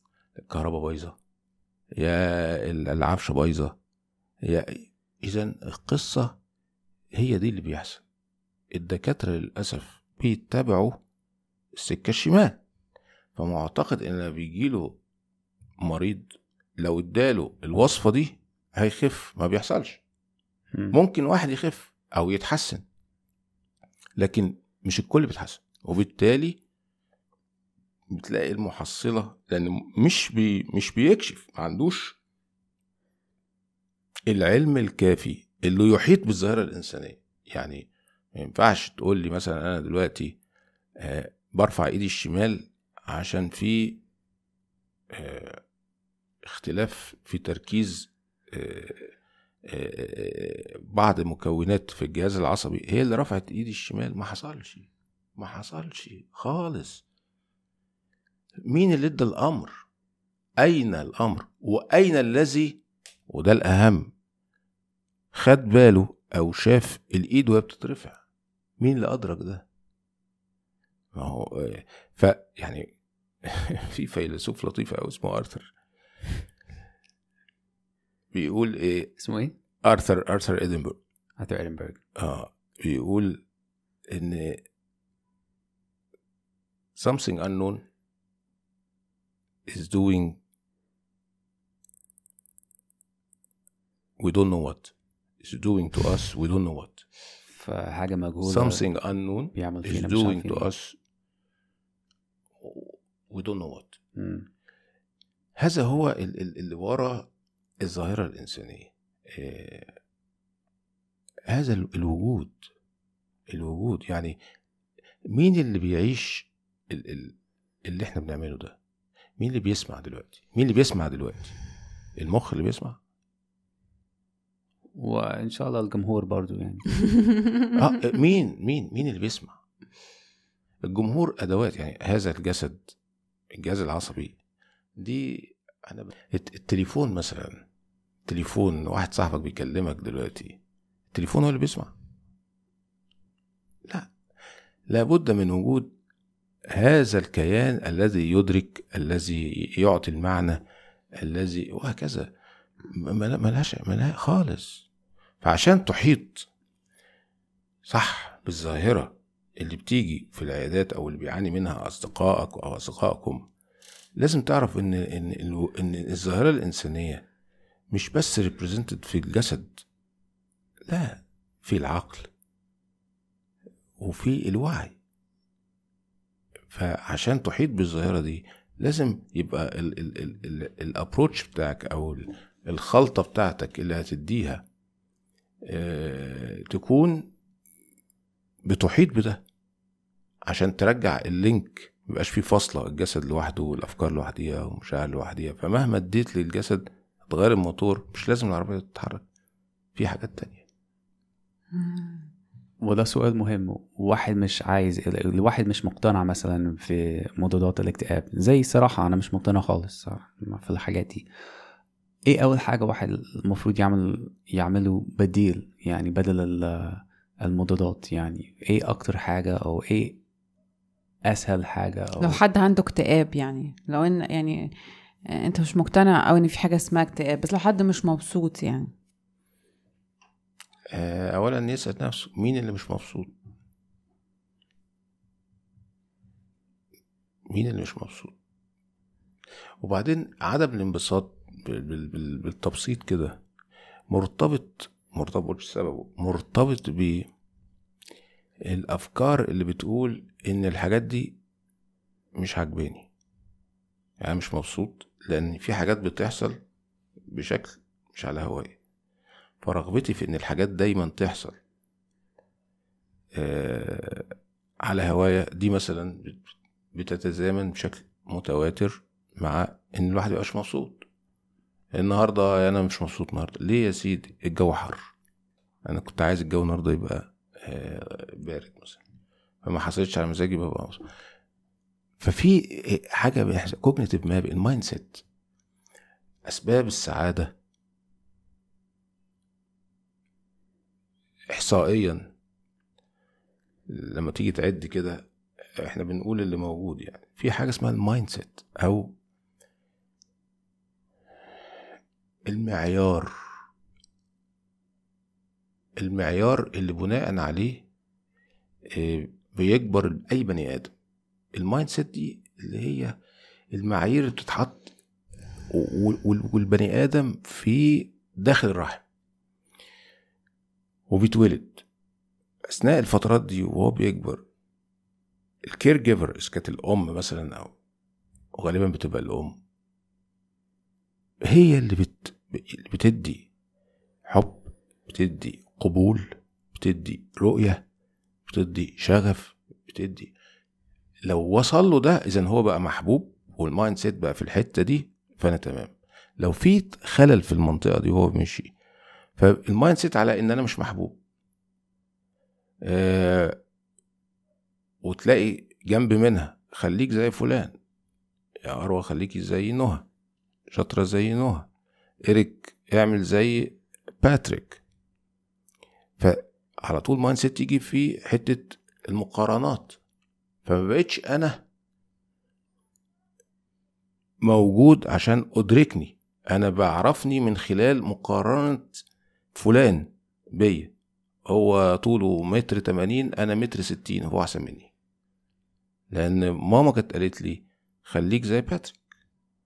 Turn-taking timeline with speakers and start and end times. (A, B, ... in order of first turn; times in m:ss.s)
0:00.4-0:01.2 A
0:02.0-0:03.8 A
0:04.4-0:06.4 A
0:07.1-0:08.0 A
0:08.7-0:11.0 A
0:11.8-0:12.6 A
0:13.4-0:15.0 A
0:15.8-0:20.0 A
0:20.9-0:22.8 A
0:24.2-0:26.6 A
0:28.1-0:32.2 A
0:34.3-0:40.4 A
0:41.0-0:44.0 A
0:45.1-0:45.6 A
0:46.4-0:49.1 A
0:49.6-0:57.0 A
0:58.7-0:59.8 A
1:00.6-1:04.1 A
1:05.3-1:08.2 A
1:08.8-1:09.6 A
1:11.1-1:12.9 A
1:13.4-1:15.7 A
1:18.3-1:19.1 A
1:19.2-1:19.6 B
1:19.8-1:21.0 A
1:21.4-1:22.0 B
1:22.2-1:23.4 A
1:24.1-1:24.6 A
1:26.9-1:27.8 A
1:29.7-1:30.4 A
1:34.2-1:37.0 A
1:37.4-1:38.8 B
1:38.4-1:41.0 A
1:39.5-1:40.7 B
1:42.6-1:44.0 A
1:44.2-1:44.5 B
1:45.6-1:47.3 A
1:47.8-1:50.0 A
1:51.5-1:52.7 A
1:53.5-1:54.4 A
1:55.3-1:58.8 A
1:59.4-2:01.5 A
2:02.2-2:03.0 A
2:05.0-2:06.8 B
2:07.7-2:09.6 A
2:10.8-2:12.9 A
2:13.5-2:14.4 A
2:15.0-2:17.6 A
2:18.2-2:20.6 A
2:21.1-2:21.9 A
2:24.9-2:25.9 A
2:26.7-2:30.6 A
2:31.2-2:32.3 A
2:32.9-2:34.8 A
2:35.4-2:36.5 A
2:37.8-2:43.4 A
2:44.2-2:47.2 A
2:47.9-2:49.8 A
2:50.9-2:52.3 A
2:54.0-2:55.0 A
2:56.7-3:04.6 A
3:05.6-3:07.3 A
3:08.7-3:09.4 A
3:10.5-3:19.2 A
3:19.9-3:20.6 A
3:21.7-3:22.3 C
3:22.8-3:31.2 B
3:32.3-3:40.2 B
3:41.3-3:42.4 B
3:42.2-3:44.7 C
3:45.2-3:48.9 C
3:50.9-3:53.3 A
3:57.5-3:58.3 A
3:59.8-4:03.4 A
4:04.1-4:07.3 A
4:08.6-4:11.4 A
4:12.4-4:13.1 A
4:14.2-4:16.6 A
4:17.3-4:18.8 A
4:19.6-4:21.6 A
4:23.3-4:31.0 A
4:31.9-4:35.1 A
4:35.8-4:39.0 A
4:39.6-4:41.1 A
4:42.2-4:45.2 A
4:46.4-4:47.5 A
4:51.5-4:52.3 A
4:53.9-4:55.2 A
4:55.8-4:59.1 A
5:02.5-5:03.3 A
5:06.0-5:07.8 A
5:08.8-5:10.9 A
5:11.6-5:13.1 A
5:13.7-5:14.9 A
5:15.7-5:19.0 A
5:21.1-5:21.8 A
5:22.7-5:24.4 A
5:25.6-5:27.7 A
5:28.6-5:29.6 A
5:31.4-5:33.5 A
5:34.2-5:37.8 A
5:38.5-5:40.3 A
5:41.2-5:48.7 A
5:49.4-5:51.2 A
5:52.8-5:53.6 A
5:55.0-5:57.8 A
5:58.6-6:00.1 A
6:00.7-6:01.7 A
6:02.3-6:04.8 A
6:06.2-6:10.0 A
6:10.6-6:11.6 A
6:14.4-6:20.9 A
6:21.4-6:24.9 A
6:26.1-6:29.0 A